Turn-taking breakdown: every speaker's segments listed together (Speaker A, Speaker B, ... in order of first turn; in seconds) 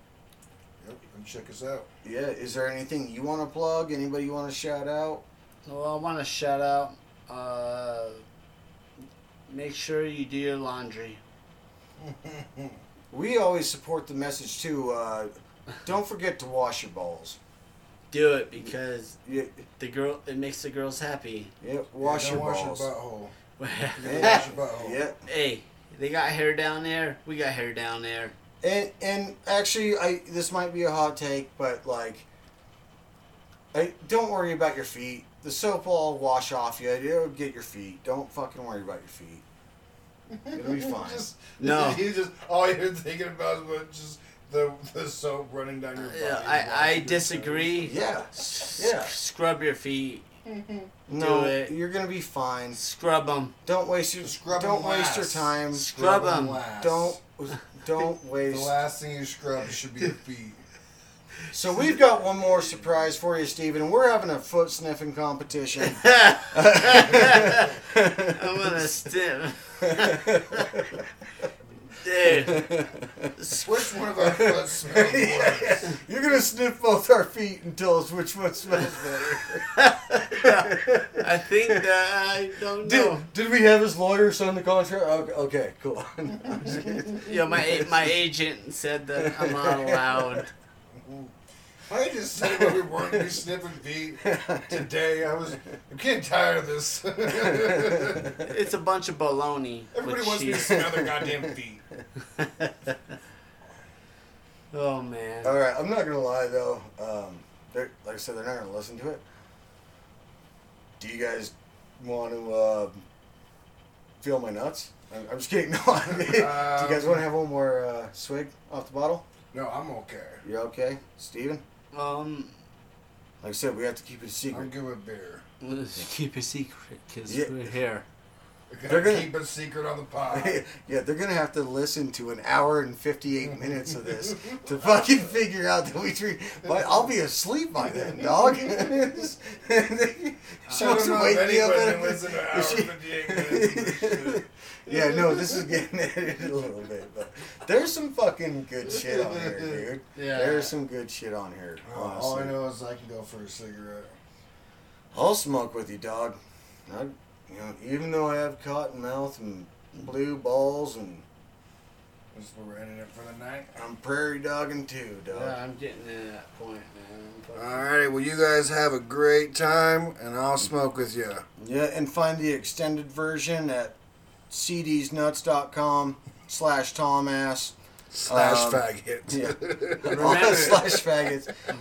Speaker A: 0.8-1.9, 12.0-12.8, 22.0-23.3, 24.0-25.0, 40.3-48.0, 50.5-50.9, 54.2-57.2, 58.5-60.6, 73.6-76.0, 91.0-91.3, 91.9-98.4, 99.9-101.8, 116.2-117.2, 119.5-120.4, 124.5-125.4, 128.7-130.6, 140.7-145.6, 148.9-149.8, 151.8-154.2, 162.3-163.8, 167.6-171.4, 178.2-181.1
Speaker B: 2.0-5.2, 13.1-15.3, 15.8-17.4, 19.2-19.5, 21.6-22.9, 24.0-25.2, 28.6-32.3, 33.7-39.4, 40.5-41.2, 47.8-49.1, 51.1-52.8, 53.6-55.9, 56.8-58.8, 61.5-68.9, 69.8-71.5, 72.3-73.3, 74.2-79.7, 80.3-81.8, 82.7-88.2, 89.2-90.4, 92.4-93.3, 94.2-94.9, 97.3-98.3, 100.6-101.3, 105.4-109.2, 111.0-113.0, 114.2-119.2, 120.4-121.6, 123.4-124.7, 127.3-127.6, 128.9-129.3, 130.3-152.5, 155.1-161.2, 163.8-165.6, 171.6-174.0, 174.5-177.8, 178.3-181.5
Speaker C: 5.7-8.2, 9.5-11.2, 18.1-19.2, 19.8-21.5, 23.6-24.5, 25.2-28.4, 41.6-42.0, 46.0-50.2, 51.1-51.7, 52.7-53.5, 55.7-56.6, 65.9-67.8, 68.3-70.8, 72.0-73.7, 79.7-83.3, 87.1-90.5, 98.4-100.8, 102.2-103.2, 104.7-105.5, 121.9-122.5, 125.6-128.1, 150.2-150.7, 165.3-167.8, 180.1-181.0